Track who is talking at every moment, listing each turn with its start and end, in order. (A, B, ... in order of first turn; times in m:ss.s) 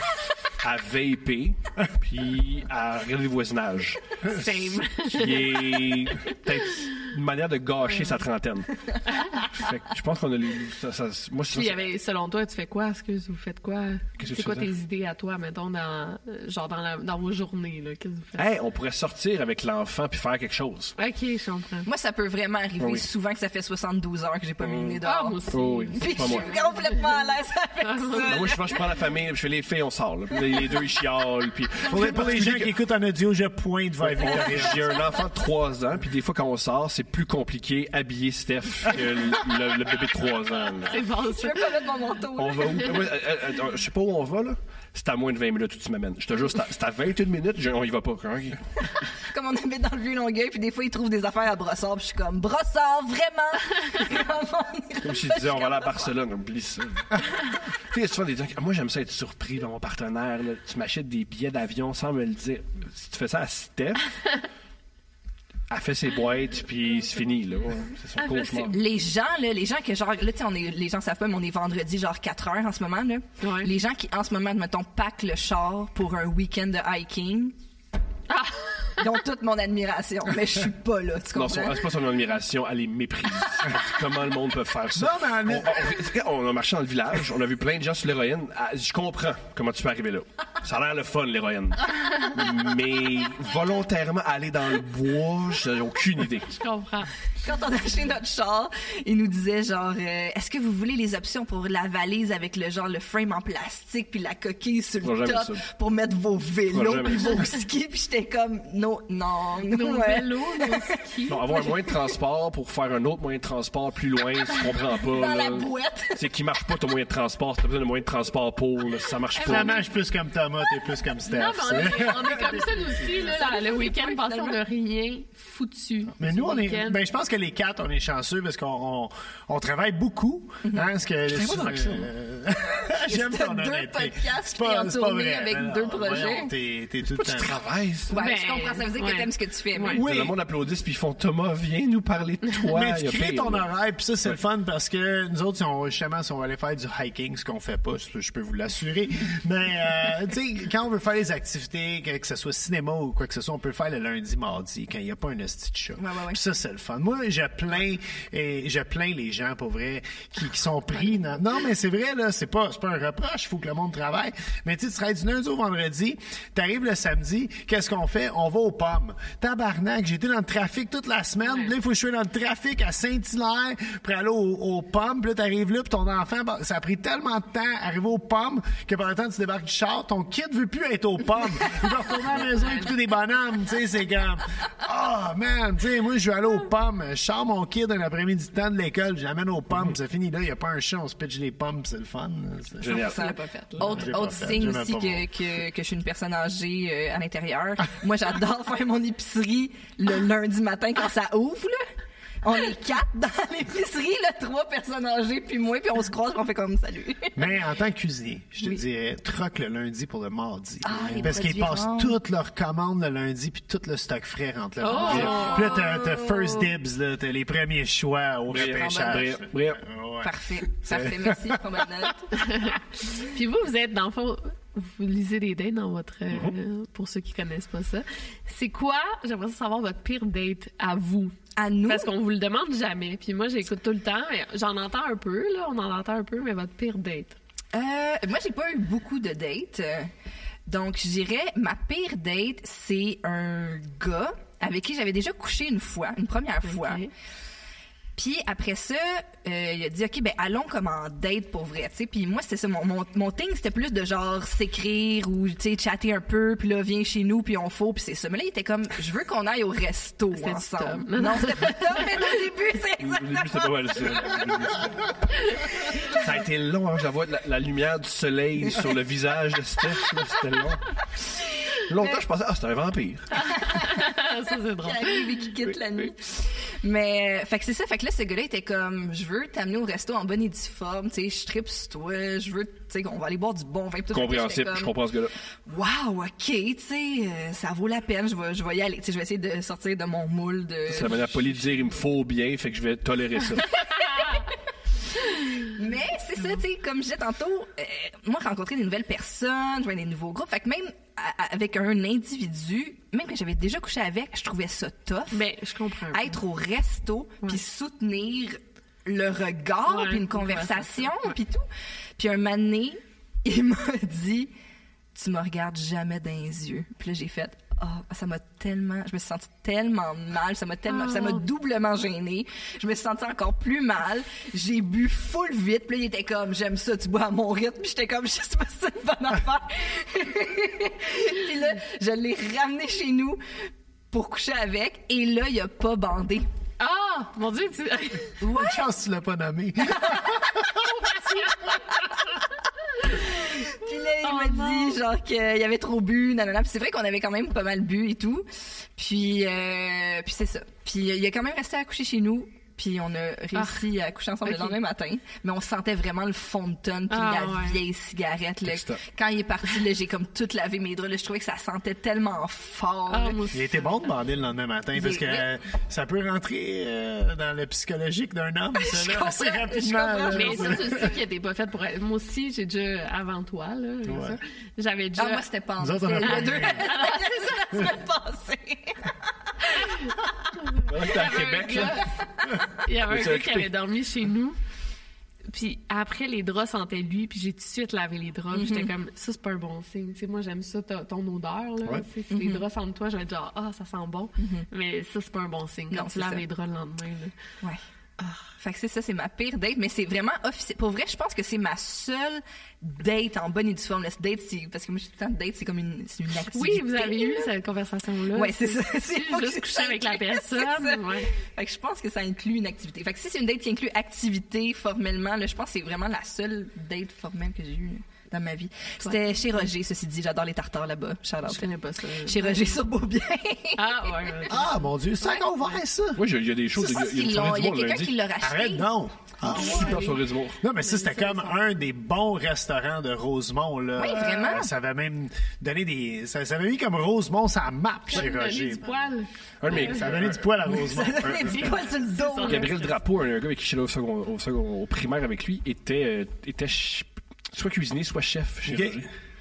0:00.6-0:11.8 A
0:04.2-0:06.1 B
0:07.9-0:08.2 B
0:09.1-0:09.5 B
0:11.5-0:18.5 B
0:14.2-0:14.7 A
0:18.4-0:21.0 A
0:21.0-0:21.9 B
0:21.8-0:25.4 C
0:22.8-0:23.1 A
0:24.6-0:26.5 A
0:25.0-0:27.0 B
0:26.0-0:28.8 C
0:27.8-0:28.7 B
0:28.2-0:32.7 A
0:31.9-0:35.0 D
0:34.0-0:41.0 A
0:40.9-0:41.7 B
0:41.3-0:42.9 C
0:42.4-0:48.6 A
0:49.3-0:56.0 C
0:55.0-0:57.3 A
0:57.9-1:04.1 A
1:05.7-1:08.8 A
1:08.2-1:08.8 B
1:08.7-1:17.6 C
1:13.4-1:13.7 B
1:18.3-1:19.0 B
1:19.0-1:21.9 C
1:21.3-1:36.5 A
1:24.9-1:26.0 D
1:36.5-1:37.1 B
1:37.4-1:51.0 C
1:45.0-1:45.6 A
1:46.7-1:47.5 A
1:49.6-1:51.8 B
1:51.3-1:59.8 A
1:55.1-1:56.2 C
1:59.4-1:59.8 B
1:59.4-2:03.2 D
2:01.3-2:07.0 B
2:03.2-2:04.6 C
2:06.2-2:17.6 D
2:10.6-2:11.6 C
2:11.3-2:12.1 A
2:13.0-2:16.5 C
2:17.2-2:18.1 A
2:18.1-2:20.0 C
2:18.1-2:20.0 B
2:19.9-2:23.6 A
2:20.0-2:20.4 D
2:22.7-3:12.9 D
2:36.0-2:36.4 C
3:02.5-3:02.9 B
3:12.8-3:13.2 A
3:12.9-3:21.9 C
3:12.9-3:14.0 B
3:13.8-3:15.3 D
3:22.4-3:27.4 C
3:27.4-3:42.1 D
3:30.8-3:32.2 C
3:34.8-3:36.6 B
3:34.9-3:35.6 C
3:35.1-3:35.4 A
3:38.5-3:39.8 A
3:38.6-3:39.3 C
3:40.2-3:42.3 C
3:42.4-3:57.4 B
3:51.6-3:52.1 C
3:57.7-4:00.1 C
4:00.7-4:07.1 C
4:06.6-4:07.1 B
4:08.2-4:24.4 C
4:20.3-4:22.4 B
4:23.0-4:30.9 A
4:25.4-4:25.6 B
4:31.9-4:33.5 A
4:33.4-4:35.4 B
4:33.5-4:34.1 C
4:34.8-4:44.9 C
4:35.7-4:36.1 A
4:44.1-4:45.4 A
4:45.7-4:51.8 C
4:50.9-4:53.8 A
4:53.8-4:54.4 B
4:55.6-5:05.5 C
5:05.3-5:06.4 B
5:06.1-5:11.6 C
5:09.9-5:11.1 B
5:12.2-5:14.5 C
5:15.2-5:33.4 C
5:20.9-5:21.4 B
5:34.1-5:36.5 C
5:36.8-5:38.4 B
5:38.4-5:38.8 C
5:38.4-5:40.9 D
5:40.0-5:40.3 C
5:40.7-5:42.4 B
5:43.0-5:45.0 B
5:43.1-6:03.4 C
5:53.5-5:53.9 B
5:54.4-5:54.8 B
5:57.1-5:57.8 B
5:58.6-5:59.0 A
6:03.1-6:04.0 B
6:03.5-6:11.2 D
6:05.0-6:05.4 C
6:08.8-6:11.1 C
6:10.1-6:15.5 B
6:14.1-6:14.4 D
6:15.2-6:19.1 C
6:15.8-6:16.9 D
6:16.2-6:17.8 B
6:19.7-6:24.6 B
6:20.8-6:22.1 A
6:23.0-6:23.7 A
6:25.5-6:37.3 B
6:28.5-6:28.9 C
6:32.3-6:32.6 C
6:34.4-6:34.6 C
6:35.9-6:36.4 C
6:38.2-6:38.5 B
6:38.6-6:47.5 C
6:46.5-6:51.3 B
6:48.3-7:01.7 C
7:01.4-7:02.8 B
7:02.2-7:04.6 C
7:03.8-7:04.7 B
7:04.5-7:06.2 D
7:06.2-7:08.2 A
7:06.8-7:08.9 C
7:08.4-7:19.0 D
7:09.4-7:10.6 A
7:09.5-7:10.2 B
7:10.8-7:11.6 B
7:14.0-7:14.7 C
7:18.1-7:20.2 B
7:19.6-7:20.5 A
7:19.7-7:21.8 D
7:20.7-7:22.8 C
7:21.3-7:23.0 B
7:22.4-7:29.1 A
7:28.6-7:29.0 D